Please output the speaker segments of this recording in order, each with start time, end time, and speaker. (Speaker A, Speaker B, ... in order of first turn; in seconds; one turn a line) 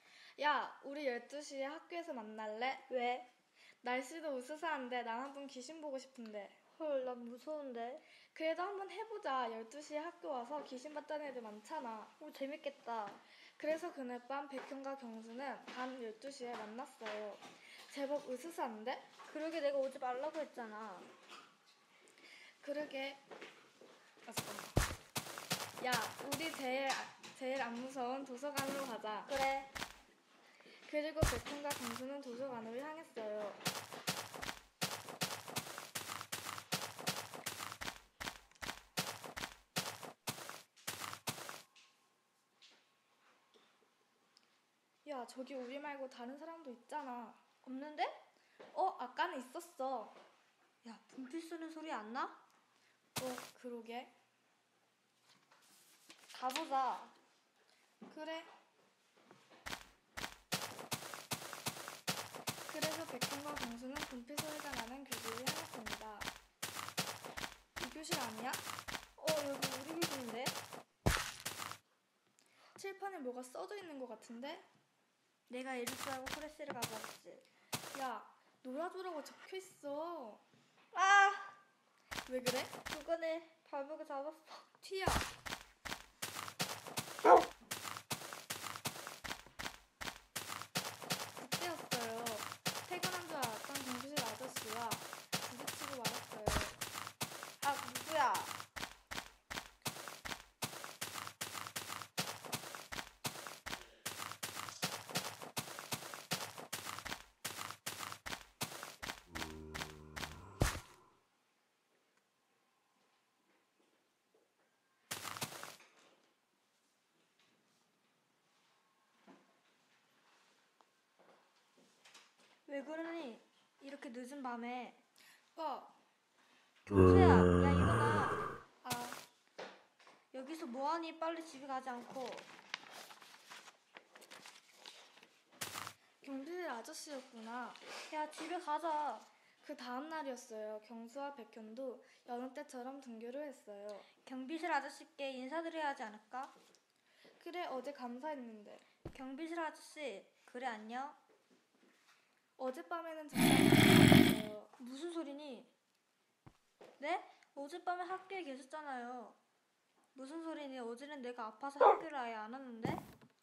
Speaker A: 0.4-2.9
Speaker B: 2.9-3.3
Speaker A: 3.8-6.6
Speaker B: 6.8-8.0
Speaker A: 8.2-12.1
Speaker B: 12.2-13.2
Speaker A: 13.3-19.1
Speaker B: 19.2-21.1
Speaker A: 22.4-23.2
Speaker A: 24.2-24.8
Speaker A: 25.8-29.3
Speaker B: 29.2-29.7
Speaker A: 30.7-33.6
Speaker A: 45.0-47.4
Speaker B: 47.6-48.2
Speaker A: 48.7-50.2
Speaker B: 50.8-52.4
Speaker A: 53.2-54.1
Speaker B: 56.3-57.1
Speaker A: 58.1-58.5
Speaker A: 62.7-66.3
Speaker A: 67.8-68.7
Speaker B: 69.2-70.6
Speaker A: 72.8-74.7
Speaker B: 75.5-77.4
Speaker A: 77.9-80.4
Speaker B: 80.9-81.6
Speaker A: 82.2-82.8
Speaker B: 82.9-84.7
Speaker A: 84.8-85.3
Speaker A: 91.3-96.8
Speaker B: 97.6-98.5
Speaker B: 122.7-125.0
Speaker A: 125.5-125.9
Speaker B: 126.9-128.4
Speaker A: 128.8-129.2
Speaker B: 130.3-132.5
Speaker A: 136.2-137.8
Speaker B: 138.1-139.3
Speaker A: 139.6-144.1
Speaker B: 144.2-146.5
Speaker A: 147.4-148.8
Speaker B: 149.1-151.2
Speaker A: 152.6-154.7
Speaker B: 154.8-155.7
Speaker B: 157.0-159.4
Speaker B: 160.1-163.0